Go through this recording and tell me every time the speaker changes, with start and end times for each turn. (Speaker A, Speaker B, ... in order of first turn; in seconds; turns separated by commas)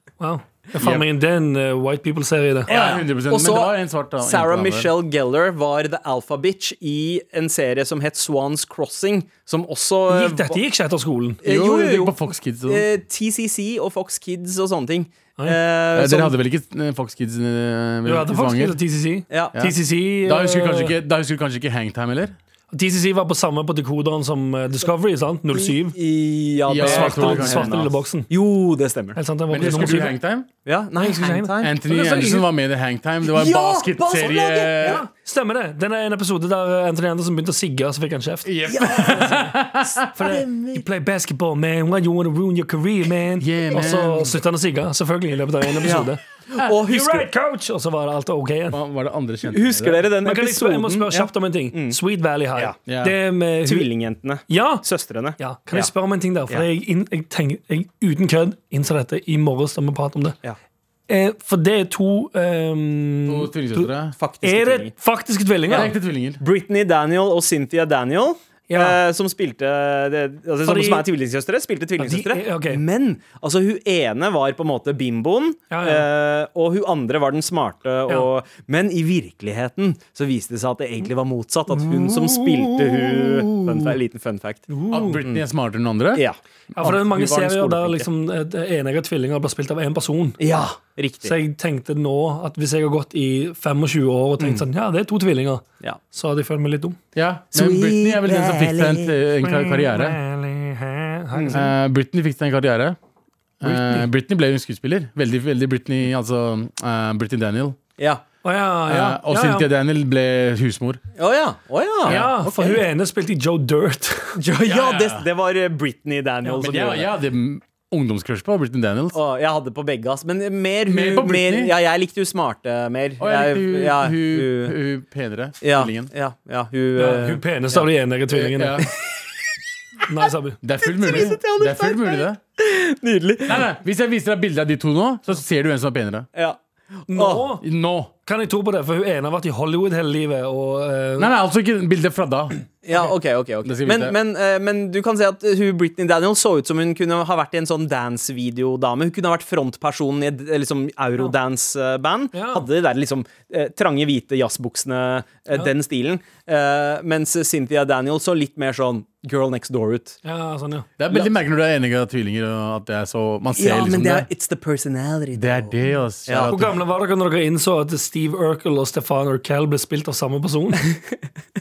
Speaker A: 0.2-2.7, Speaker B: 0.8-1.1, Speaker B: 2.7-4.9, Speaker C: 2.7-10.6, Speaker A: 10.1-11.4, Speaker C: 11.4-16.3, Speaker B: 11.4-12.8, Speaker B: 15.9-18.8, Speaker A: 18.1-20.9, Speaker C: 19.3-19.6, Speaker B: 19.6-22.4, Speaker A: 22.7-26.0, Speaker C: 25.5-30.0, Speaker B: 26.7-27.9, Speaker A: 26.8-28.3, Speaker A: 29.1-30.1, Speaker B: 29.5-30.5, Speaker C: 30.6-32.3, Speaker A: 31.0-32.5, Speaker B: 31.6-35.0, Speaker C: 33.2-35.0, Speaker A: 34.8-39.5, Speaker B: 38.5-40.1, Speaker C: 38.7-39.4, Speaker C: 40.0-40.9, Speaker A: 40.1-46.2, Speaker B: 43.4-44.4, Speaker C: 45.8-47.3, Speaker A: 46.8-48.8, Speaker B: 48.7-50.0, Speaker C: 49.5-52.0, Speaker A: 50.2-53.9, Speaker B: 52.9-53.2, Speaker C: 53.6-55.9, Speaker A: 54.5-54.8, Speaker A: 55.4-60.4, Speaker A: 61.1-63.9, Speaker B: 63.3-64.2, Speaker C: 64.2-64.9, Speaker A: 64.4-65.9, Speaker B: 65.7-66.4, Speaker C: 66.4-84.7, Speaker A: 68.7-69.0, Speaker A: 70.7-71.1, Speaker A: 72.0-72.8, Speaker A: 75.7-76.1, Speaker A: 84.7-85.2, Speaker B: 84.9-86.2, Speaker C: 86.2-88.1, Speaker A: 86.8-90.4, Speaker C: 90.4-91.3, Speaker A: 91.2-97.0, Speaker C: 94.4-94.7, Speaker B: 97.2-100.2, Speaker C: 97.5-99.2, Speaker A: 99.4-101.7, Speaker C: 101.3-101.6, Speaker B: 101.5-103.0, Speaker B: 103.6-107.8, Speaker A: 103.6-104.1, Speaker C: 108.0-108.2, Speaker A: 108.4-109.7, Speaker B: 108.9-111.0, Speaker C: 111.2-112.8, Speaker A: 112.1-114.4, Speaker C: 114.4-117.1, Speaker B: 114.7-115.3, Speaker B: 116.6-119.2, Speaker C: 119.1-124.8, Speaker B: 120.9-121.7, Speaker B: 123.2-126.1, Speaker C: 125.6-127.8, Speaker A: 127.0-128.8, Speaker B: 128.3-128.9, Speaker A: 130.1-130.6, Speaker B: 130.6-132.4, Speaker C: 130.8-133.7, Speaker B: 133.5-136.3, Speaker C: 136.3-137.5, Speaker A: 137.1-137.6, Speaker B: 137.6-138.1, Speaker A: 138.2-141.3, Speaker B: 141.2-142.6, Speaker C: 142.8-160.2, Speaker B: 143.6-144.2, Speaker A: 152.3-152.7, Speaker A: 160.2-160.9, Speaker B: 161.0-164.3, Speaker C: 163.6-166.6, Speaker B: 165.4-166.8, Speaker A: 166.5-170.9, Speaker C: 170.8-171.2